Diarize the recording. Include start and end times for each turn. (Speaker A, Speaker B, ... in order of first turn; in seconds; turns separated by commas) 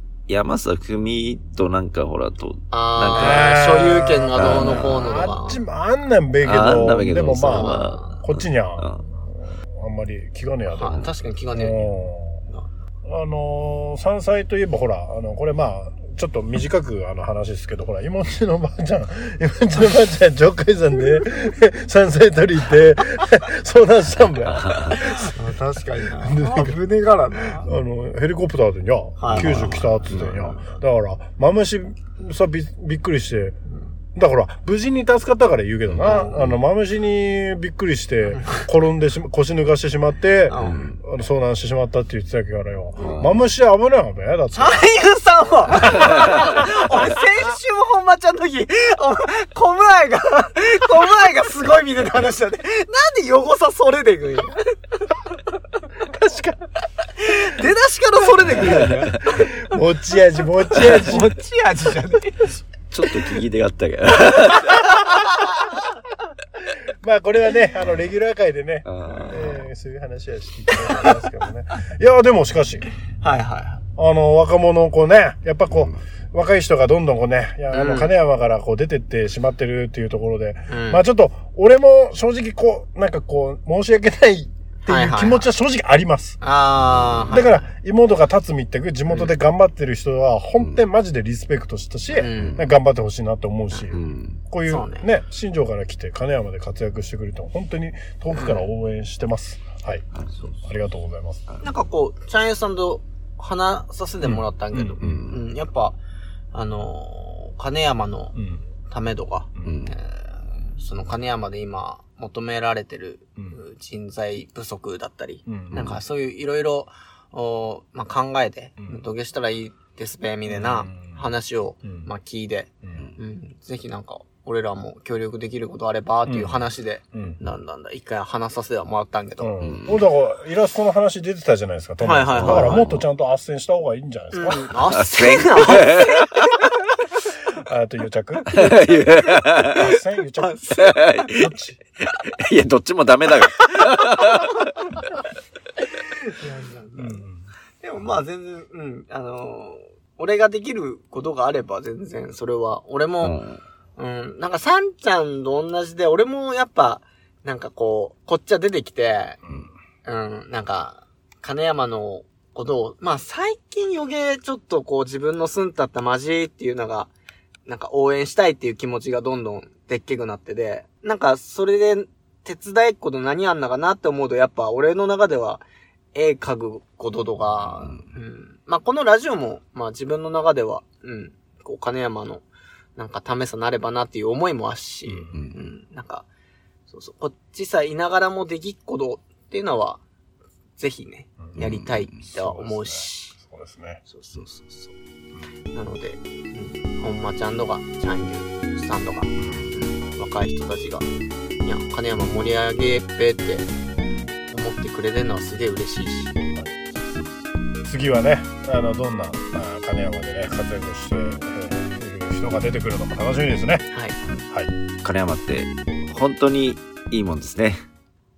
Speaker A: 0.3-3.6, Speaker B: 2.7-5.6, Speaker C: 3.1-8.9, Speaker A: 4.3-5.3, Speaker A: 6.4-9.0, Speaker B: 7.5-8.2, Speaker C: 9.7-12.4, Speaker B: 10.8-12.7, Speaker C: 13.1-25.4, Speaker A: 24.3-25.0, Speaker B: 24.9-27.7, Speaker C: 26.0-26.8, Speaker C: 27.5-33.6, Speaker B: 29.2-30.8, Speaker A: 29.3-30.6, Speaker C: 34.1-44.8, Speaker A: 35.9-36.5, Speaker B: 36.0-36.4, Speaker B: 38.3-38.6, Speaker B: 40.5-40.9, Speaker A: 40.6-41.0, Speaker B: 43.0-43.3, Speaker A: 43.0-43.4, Speaker B: 44.5-54.7, Speaker C: 45.9-46.5, Speaker C: 56.2-56.5, Speaker B: 57.2-59.4, Speaker A: 58.5-59.4, Speaker C: 59.3-61.4, Speaker B: 60.7-62.3, Speaker A: 62.9-64.9, Speaker C: 67.0-72.9, Speaker A: 68.8-69.7, Speaker B: 73.2-73.8, Speaker C: 74.0-86.4, Speaker B: 77.7-78.1, Speaker B: 80.7-81.0, Speaker B: 84.9-85.5, Speaker B: 86.4-87.7, Speaker A: 86.8-87.4, Speaker C: 87.3-100.0, Speaker B: 89.1-89.3, Speaker A: 90.6-90.8, Speaker B: 92.1-92.6, Speaker A: 92.3-92.7, Speaker A: 93.9-94.4, Speaker B: 94.7-95.1, Speaker B: 98.3-98.7, Speaker A: 100.1-100.5, Speaker C: 100.6-101.4, Speaker B: 101.6-106.0, Speaker C: 104.2-105.0, Speaker A: 105.0-105.4, Speaker B: 106.5-108.3, Speaker C: 108.3-108.7, Speaker B: 108.9-110.2, Speaker C: 109.6-109.9, Speaker A: 109.6-109.9, Speaker B: 110.8-129.5, Speaker C: 115.5-116.0, Speaker C: 120.5-121.2, Speaker C: 121.8-122.1, Speaker C: 126.3-126.6, Speaker C: 127.1-127.4, Speaker C: 129.4-134.8, Speaker A: 129.6-130.1, Speaker B: 132.0-132.9, Speaker A: 132.3-133.0, Speaker B: 134.3-136.4, Speaker A: 134.9-136.4, Speaker C: 137.6-138.8, Speaker A: 138.5-139.9, Speaker C: 139.6-140.6, Speaker B: 140.4-141.0, Speaker A: 140.7-144.8, Speaker C: 141.2-141.8, Speaker B: 144.2-144.4, Speaker B: 146.1-147.2, Speaker C: 146.9-147.4, Speaker B: 147.8-153.4, Speaker A: 153.2-153.6, Speaker B: 154.0-159.4, Speaker C: 159.4-159.7, Speaker B: 160.0-167.1, Speaker B: 167.7-175.6, Speaker B: 176.1-182.4, Speaker A: 177.8-178.0, Speaker B: 182.9-186.2, Speaker C: 185.1-185.3, Speaker A: 185.3-185.6, Speaker B: 186.9-190.0, Speaker B: 190.8-193.3, Speaker A: 191.5-192.2, Speaker C: 192.3-194.0, Speaker B: 194.1-194.9, Speaker B: 195.7-201.1, Speaker A: 199.5-199.7, Speaker B: 201.6-203.7, Speaker B: 204.5-206.3, Speaker C: 206.5-206.9, Speaker C: 207.8-213.8, Speaker B: 213.9-214.2, Speaker A: 215.0-217.8